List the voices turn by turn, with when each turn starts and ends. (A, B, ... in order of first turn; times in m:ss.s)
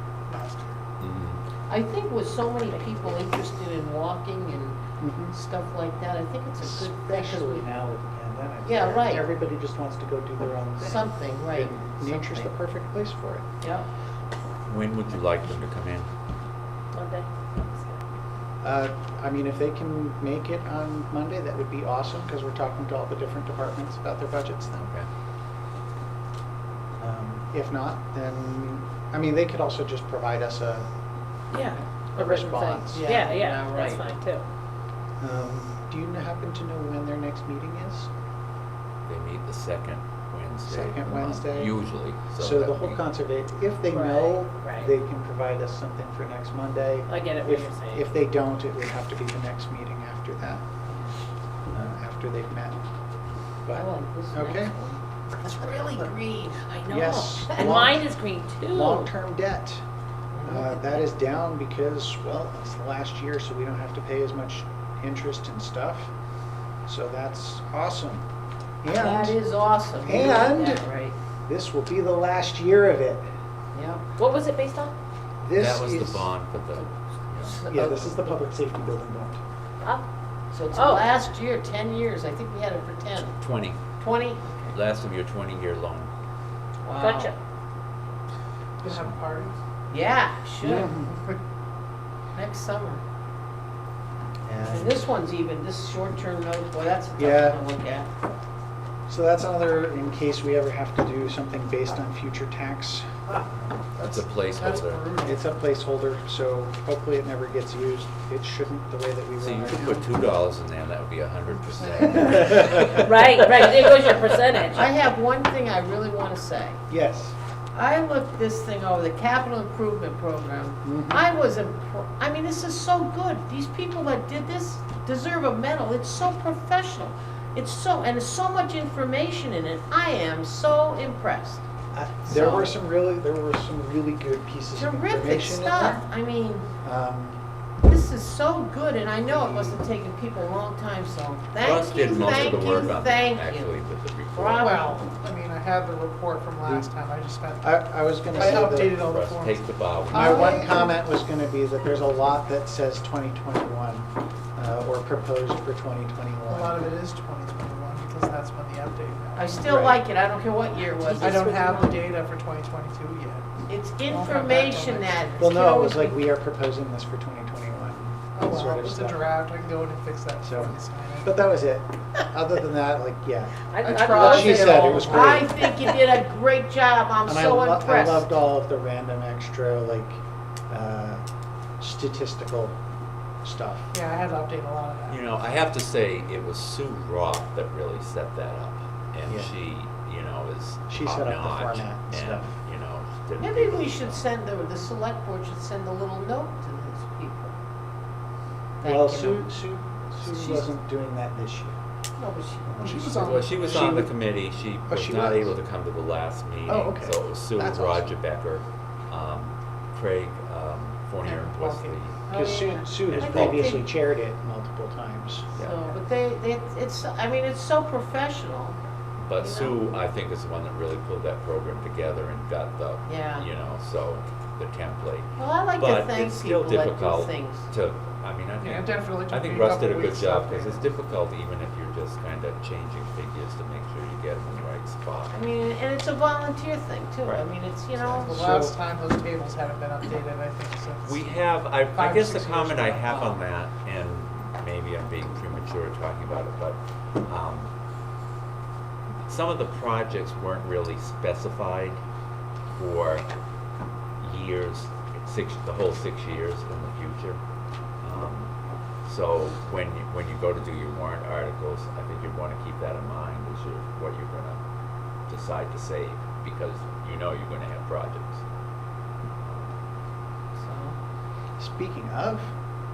0:00.3-0:00.8 A
0:01.0-0:01.4 B
0:01.7-0:04.8 C
0:05.0-0:05.3 D
0:05.3-0:07.6 C
0:06.6-0:13.4 D
0:08.6-0:09.2 C
0:10.8-0:12.5 C
0:13.6-0:13.9 C
0:14.6-0:16.1 B
0:16.9-0:18.0 E
0:18.6-0:24.9 D
0:24.8-0:25.1 B
0:27.0-0:30.9 D
0:31.5-0:34.4 E
0:32.2-0:33.1 D
0:32.9-0:34.2 C
0:35.2-0:38.1 D
0:39.0-0:43.0 B
0:40.6-0:41.8 D
0:42.4-0:50.8 D
0:43.9-0:44.9 E
0:47.1-0:48.0 E
0:51.7-0:52.8 D
0:53.6-0:54.7 D
0:53.7-0:57.8 C
0:55.4-0:56.1 D
0:56.8-0:58.1 D
0:56.9-0:59.1 E
0:58.7-0:59.8 D
1:00.3-1:01.0 C
1:00.4-1:06.1 D
1:06.9-1:08.2 D
1:08.8-1:09.4 D
1:08.9-1:11.2 C
1:10.0-1:10.8 D
1:11.5-1:13.3 D
1:13.7-1:14.0 C
1:14.2-1:14.9 E
1:15.4-1:16.3 D
1:15.5-1:17.6 B
1:17.4-1:18.1 C
1:17.7-1:19.4 D
1:20.5-1:23.4 C
1:20.7-1:21.1 E
1:23.4-1:23.8 B
1:24.0-1:24.7 C
1:24.7-1:26.1 B
1:26.8-1:27.3 C
1:27.0-1:27.4 E
1:28.8-1:29.6 A
1:29.9-1:31.0 C
1:30.6-1:31.1 D
1:32.3-1:33.0 C
1:34.4-1:35.0 D
1:34.6-1:38.1 C
1:37.2-1:37.6 D
1:39.1-1:44.2 D
1:44.0-1:45.1 B
1:44.5-1:45.4 A
1:45.2-1:50.1 D
1:49.4-1:54.8 B
1:51.8-1:52.3 A
1:52.0-1:53.0 D
1:52.8-1:54.8 E
1:54.7-1:56.8 C
1:56.9-1:57.3 D
1:57.7-2:11.6 C
2:00.8-2:01.3 D
2:11.9-2:16.0 D
2:12.2-2:12.7 C
2:14.8-2:16.7 C
2:16.8-2:17.4 D
2:17.8-2:23.8 C
2:19.2-2:19.8 D
2:21.6-2:24.7 B
2:24.3-2:25.2 C
2:24.6-2:27.8 A
2:26.6-2:26.9 D
2:27.6-2:29.0 D
2:28.3-2:30.9 A
2:28.3-2:30.7 B
2:30.1-2:36.8 D
2:36.5-2:39.6 A
2:39.4-2:42.0 C
2:39.6-2:40.0 D
2:41.2-2:43.5 A
2:43.7-2:46.2 C
2:44.1-2:45.5 A
2:45.4-2:49.2 D
2:48.3-2:51.3 A
2:50.4-2:55.5 D
2:53.7-2:55.4 E
2:53.8-2:55.5 A
2:55.0-2:58.3 C
2:57.2-3:01.2 D
3:01.8-3:02.8 D
3:03.4-3:03.9 D
3:03.9-3:05.2 A
3:05.1-3:14.3 B
3:09.2-3:09.6 D
3:10.9-3:12.6 D
3:13.4-3:17.6 C
3:18.8-3:19.5 C
3:18.8-3:21.8 D
3:20.2-3:20.7 C
3:22.2-3:23.7 C
3:22.7-3:23.1 D
3:22.8-3:23.6 A
3:23.1-3:32.2 B
3:23.6-3:24.1 D
3:24.9-3:25.6 D
3:26.6-3:28.2 D
3:31.2-3:32.0 A
3:32.3-3:33.9 C
3:32.3-3:35.5 D
3:33.0-3:33.8 B
3:35.5-3:35.9 B
3:35.6-3:38.8 C
3:39.2-3:55.3 B
3:39.4-3:39.8 C
3:43.0-3:43.5 C
3:45.4-3:47.7 C
3:48.6-3:50.9 A
3:55.3-3:58.4 C
3:58.0-3:58.8 D
3:58.3-4:03.1 A
4:01.0-4:07.7 B
4:09.2-4:12.0 B
4:12.7-4:13.2 B
4:14.2-4:17.4 B
4:18.0-4:18.5 B
4:19.0-4:24.6 B
4:25.3-4:28.4 B
4:29.4-4:29.7 B
4:30.5-4:31.0 C
4:31.6-4:32.5 D